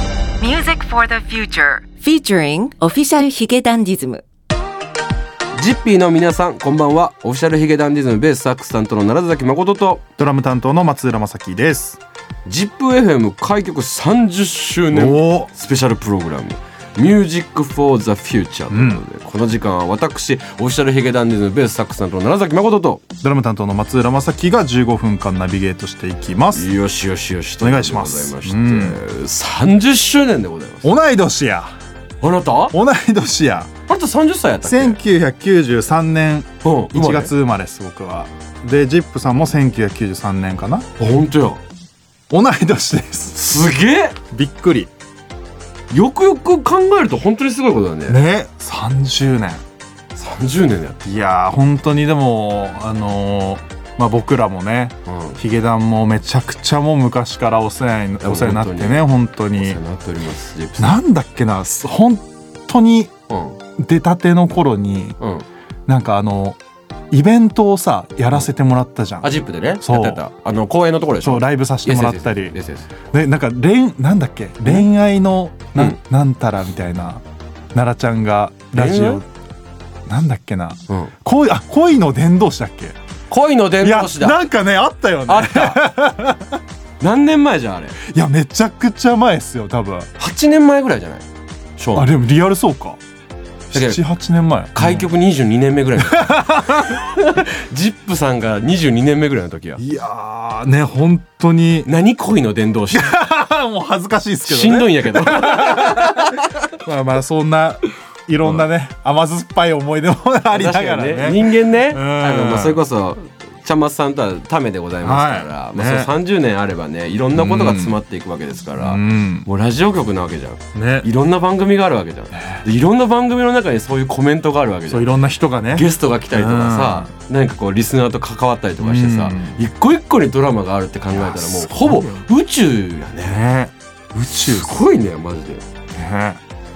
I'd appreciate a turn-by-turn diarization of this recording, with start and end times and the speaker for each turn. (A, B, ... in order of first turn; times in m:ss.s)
0:00.4-0:04.2 A
0:05.5-0:10.0 B
0:10.2-0:12.0 C
0:12.4-0:23.0 B
0:14.9-0:15.5 C
0:18.7-0:19.0 C
0:23.2-0:26.7 C
0:26.5-0:30.9 B
0:27.6-0:29.0 C
0:30.8-0:31.7 C
0:32.2-0:32.7 B
0:32.7-0:33.7 C
0:33.9-0:35.0 B
0:34.6-0:40.9 C
0:36.6-0:37.3 B
0:41.0-0:41.6 B
0:42.3-0:43.4 C
0:43.3-0:44.2 B
0:44.3-0:44.9 C
0:45.9-0:48.2 B
0:48.1-0:49.6 C
0:50.1-0:51.1 B
0:51.0-0:59.8 C
0:55.0-0:55.4 B
0:58.2-1:01.0 B
1:00.8-1:03.1 C
1:03.3-1:03.6 B
1:03.8-1:05.2 C
1:05.2-1:05.5 B
1:05.9-1:06.6 C
1:07.1-1:10.2 C
1:09.2-1:12.9 B
1:11.2-1:12.6 C
1:13.1-1:19.2 C
1:18.7-1:19.2 B
1:20.0-1:23.0 C
1:23.3-1:24.4 B
1:23.8-1:26.6 C
1:25.2-1:25.8 B
1:27.0-1:28.0 B
1:28.0-1:30.1 C
1:30.2-1:31.2 B
1:31.8-1:32.1 B
1:31.9-1:33.0 C
1:33.7-1:35.1 C
1:33.7-1:34.0 B
1:34.7-1:39.8 B
1:36.0-1:37.0 C
1:39.8-1:41.9 C
1:41.8-1:43.1 B
1:42.9-1:52.8 C
1:44.4-1:46.6 B
1:48.4-1:48.7 B
1:50.5-2:05.1 B
1:55.0-1:56.1 C
1:57.3-1:58.0 C
1:58.8-1:59.5 C
2:00.7-2:01.1 C
2:02.3-2:02.6 C
2:04.9-2:07.1 C
2:05.7-2:13.4 B
2:08.8-2:09.6 C
2:11.1-2:12.2 C
2:13.2-2:14.8 C
2:14.3-2:15.6 B
2:15.9-2:16.4 C